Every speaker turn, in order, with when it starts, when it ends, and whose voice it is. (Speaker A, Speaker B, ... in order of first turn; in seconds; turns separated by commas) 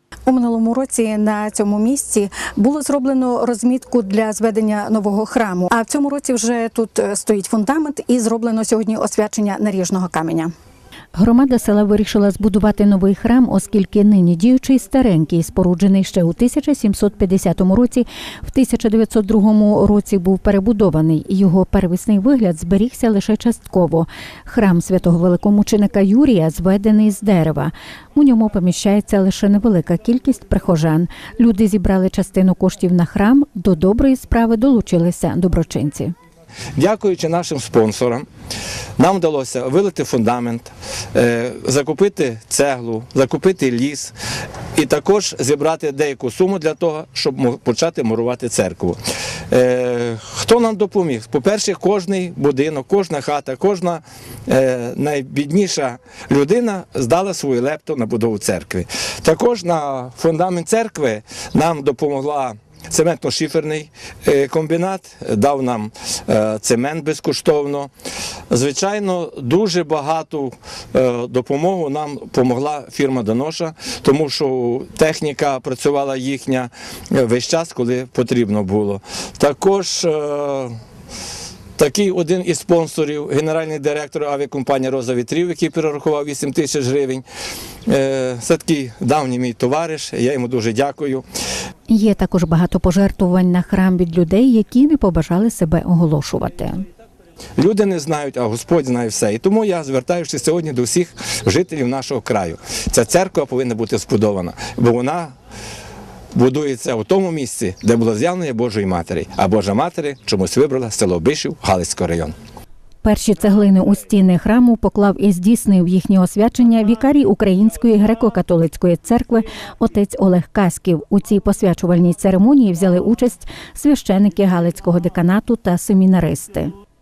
Speaker A: 0.3-10.5, Speaker B: 11.2-36.1, Speaker C: 36.8-38.3, Speaker C: 39.0-44.1, Speaker C: 44.8-49.0, Speaker C: 49.5-67.9, Speaker C: 68.5-80.7, Speaker C: 81.8-87.3, Speaker C: 87.9-91.2, Speaker B: 91.9-96.8, Speaker C: 97.6-105.3, Speaker C: 106.3-112.3, Speaker B: 113.0-126.7